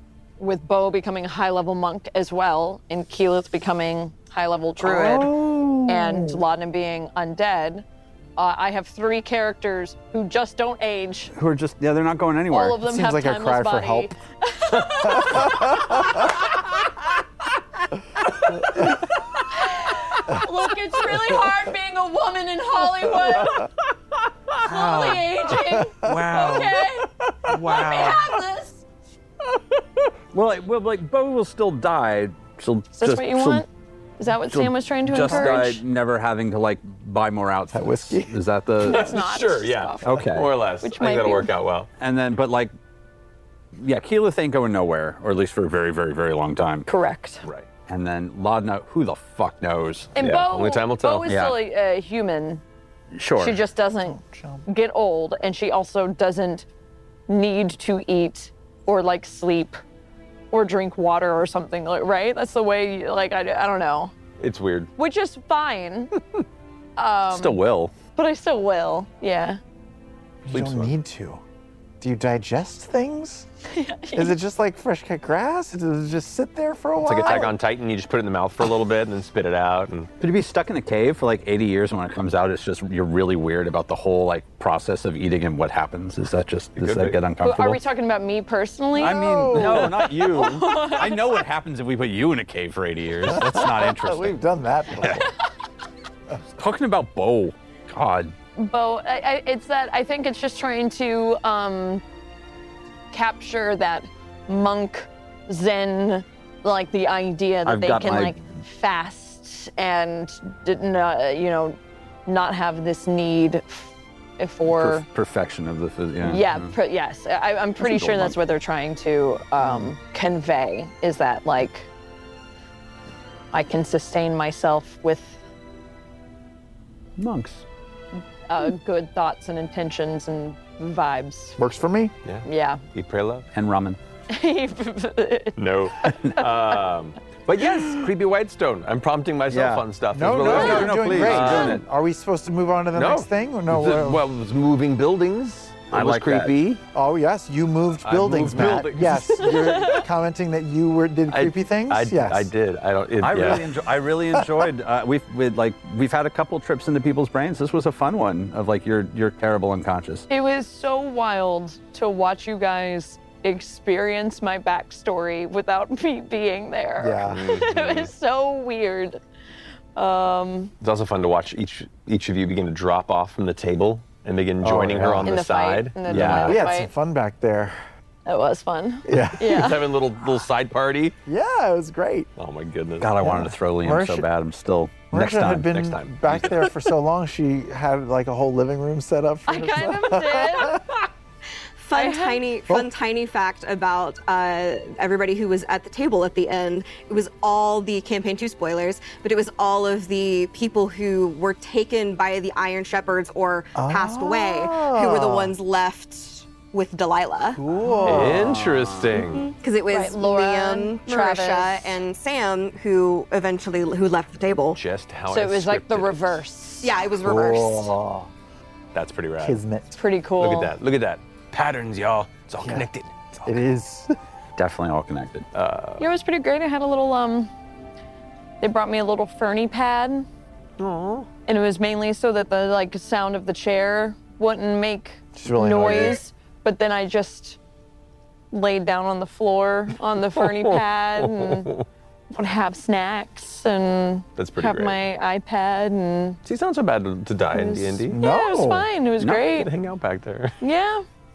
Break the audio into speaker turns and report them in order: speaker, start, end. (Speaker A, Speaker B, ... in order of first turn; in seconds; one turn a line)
Speaker A: 0.4-7.8
Speaker B: 4.8-6.3
Speaker A: 8.4-11.3
Speaker B: 11.3-12.8
Speaker A: 12.5-16.9
Speaker C: 12.8-14.2
Speaker C: 15.2-16.0
Speaker A: 19.4-23.7
Speaker B: 24.6-26.8
Speaker A: 24.6-28.8
Speaker C: 25.6-26.4
Speaker B: 27.4-28.3
Speaker B: 30.3-33.6
Speaker A: 32.9-33.7
Speaker A: 34.2-35.8
Speaker B: 34.5-39.1
Speaker C: 37.7-38.4
Speaker A: 38.8-40.3
Speaker D: 38.8-41.9
Speaker B: 40.0-40.5
Speaker A: 40.8-41.5
Speaker B: 42.0-42.7
Speaker B: 43.8-46.9
Speaker A: 46.9-47.5
Speaker B: 47.9-50.2
Speaker A: 50.2-52.6
Speaker D: 50.2-51.3
Speaker B: 51.3-51.6
Speaker B: 53.1-53.6
Speaker A: 53.4-56.7
Speaker C: 54.0-54.7
Speaker A: 57.3-59.8
Speaker A: 60.5-64.1
Speaker D: 64.4-64.9
Speaker A: 65.0-66.1
Speaker A: 67.0-67.6
Speaker B: 67.3-67.9
Speaker A: 68.2-69.6
Speaker C: 70.4-71.4
Speaker D: 70.5-70.9
Speaker C: 72.0-73.5
Speaker A: 73.7-74.3
Speaker C: 74.1-77.5
Speaker D: 77.0-80.1
Speaker B: 80.2-87.8
Speaker D: 86.8-87.2
Speaker A: 87.4-91.4
Speaker C: 89.0-90.0
Speaker B: 89.0-94.4
Speaker C: 93.2-95.3
Speaker B: 96.6-98.3
Speaker A: 98.6-102.0
Speaker A: 103.1-115.1
Speaker B: 107.7-108.4
Speaker B: 114.7-116.7
Speaker A: 116.2-121.9
Speaker B: 117.8-118.4
Speaker B: 119.6-119.9
Speaker A: 123.5-125.4
Speaker B: 127.2-127.6
Speaker A: 128.5-131.6
Speaker C: 131.6-132.2
Speaker D: 132.2-133.5
Speaker A: 132.4-132.8
Speaker B: 133.5-134.0
Speaker A: 134.3-136.4
Speaker D: 135.6-141.8
Speaker B: 139.5-141.8
Speaker C: 140.1-144.2
Speaker D: 143.0-146.8
Speaker B: 145.9-146.6
Speaker C: 146.9-152.5
Speaker D: 148.0-149.5
Speaker A: 149.4-150.1
Speaker D: 151.3-153.8
Speaker B: 153.2-160.3
Speaker C: 154.3-154.6
Speaker A: 160.3-169.2
Speaker C: 167.0-167.6
Speaker D: 167.3-168.1
Speaker A: 170.0-170.7
Speaker D: 170.8-176.6
Speaker C: 174.6-175.4
Speaker A: 175.2-176.9
Speaker B: 176.1-176.5
Speaker C: 176.1-177.8
Speaker A: 178.2-179.8
Speaker C: 179.1-179.7
Speaker D: 179.4-181.2
Speaker C: 181.3-182.3
Speaker D: 182.4-183.2
Speaker B: 183.0-185.7
Speaker C: 183.2-184.3
Speaker C: 185.1-191.0
Speaker D: 185.6-186.7
Speaker A: 189.5-190.8
Speaker E: 191.8-207.6
Speaker A: 191.9-192.5
Speaker C: 203.8-205.5
Speaker C: 207.5-208.6
Speaker B: 208.0-209.2
Speaker D: 208.0-209.5
Speaker E: 209.1-214.8
Speaker A: 209.9-212.0
Speaker D: 214.7-216.4
Speaker A: 215.3-217.0
Speaker E: 216.8-217.9
Speaker C: 217.2-218.3
Speaker D: 218.9-219.6
Speaker C: 219.4-220.0
Speaker A: 219.9-220.7
Speaker D: 220.4-223.6
Speaker C: 222.6-222.9
Speaker C: 223.4-224.1
Speaker B: 224.6-225.5
Speaker D: 225.5-226.1
Speaker A: 226.0-227.5
Speaker A: 228.6-230.3
Speaker D: 230.8-231.3
Speaker A: 231.5-237.6
Speaker C: 235.3-236.2
Speaker A: 238.5-241.7
Speaker D: 240.4-241.8
Speaker A: 242.3-246.4
Speaker D: 244.4-245.0
Speaker D: 246.4-248.2
Speaker A: 247.5-249.7
Speaker C: 248.1-248.9
Speaker B: 249.2-249.5
Speaker D: 249.5-250.6
Speaker A: 250.6-251.1